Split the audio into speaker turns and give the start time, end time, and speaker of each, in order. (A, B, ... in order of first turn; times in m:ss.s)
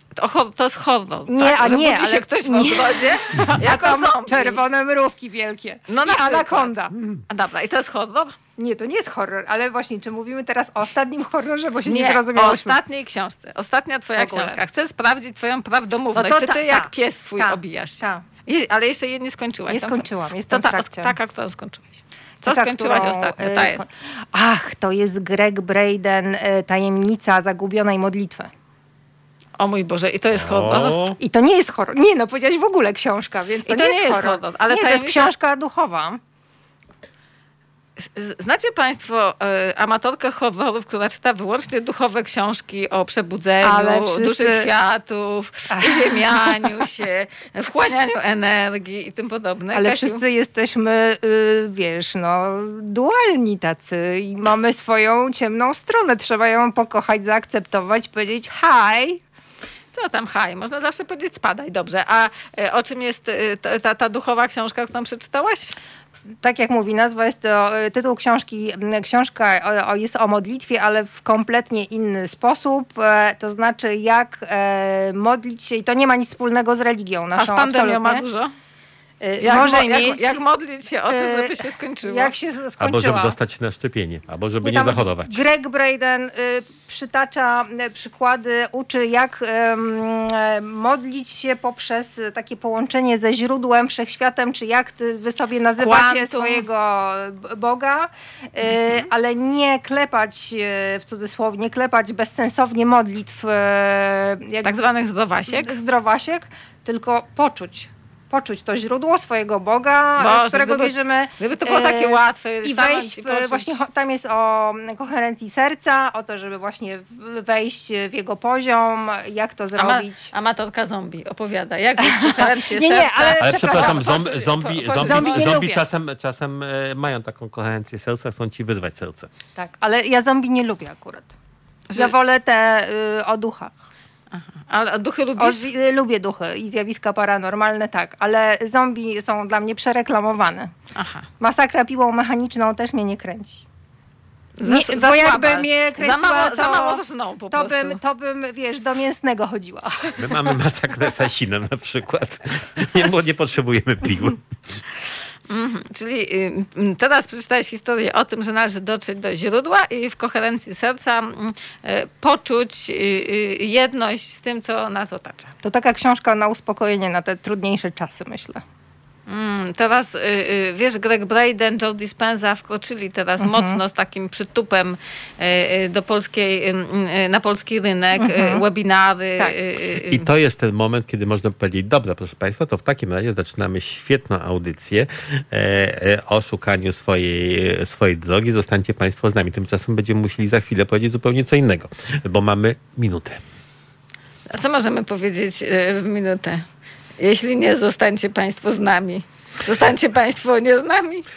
0:00.2-0:04.6 A
0:01.3-0:07.0 B
0:05.9-0:06.7 A
0:07.3-0:08.4 A
0:08.6-0:12.8 B
0:11.8-0:23.8 A
0:14.2-0:14.6 B
0:16.2-0:18.2 B
0:19.7-0:21.2 B
0:22.5-0:28.5 B
0:29.6-0:31.0 A
0:30.3-0:31.2 C
0:31.2-0:36.2 B
0:33.7-0:35.3 A
0:38.0-0:50.2 A
0:43.6-0:44.7 B
0:45.8-0:46.7 B
0:49.7-0:59.2 B
0:59.9-1:05.8 A
1:06.4-1:18.2 B
1:17.4-1:18.5 A
1:19.2-1:20.4 B
1:19.4-1:22.3 A
1:21.1-1:23.4 B
1:22.8-1:25.4 C
1:24.6-1:44.8 B
1:35.8-1:36.6 A
1:44.6-1:45.8 A
1:45.5-2:00.3 B
1:50.2-1:53.8 A
1:59.8-2:05.6 A
2:02.0-2:04.2 B
2:03.3-2:09.3 C
2:05.0-2:05.8 B
2:09.6-2:11.3 B
2:12.0-2:13.8 B
2:14.3-2:15.7 A
2:15.4-2:20.7 B
2:21.0-2:21.3 A
2:21.4-2:23.6 B
2:24.6-2:28.0 A
2:24.6-2:30.6 B
2:30.2-2:34.4 C
2:35.5-2:45.5 A
2:45.6-2:48.6 B
2:49.3-3:00.3 A
2:53.4-2:53.8 B
2:58.2-2:58.6 B
3:00.0-3:13.4 C
3:14.5-3:16.6 A
3:17.2-3:21.2 A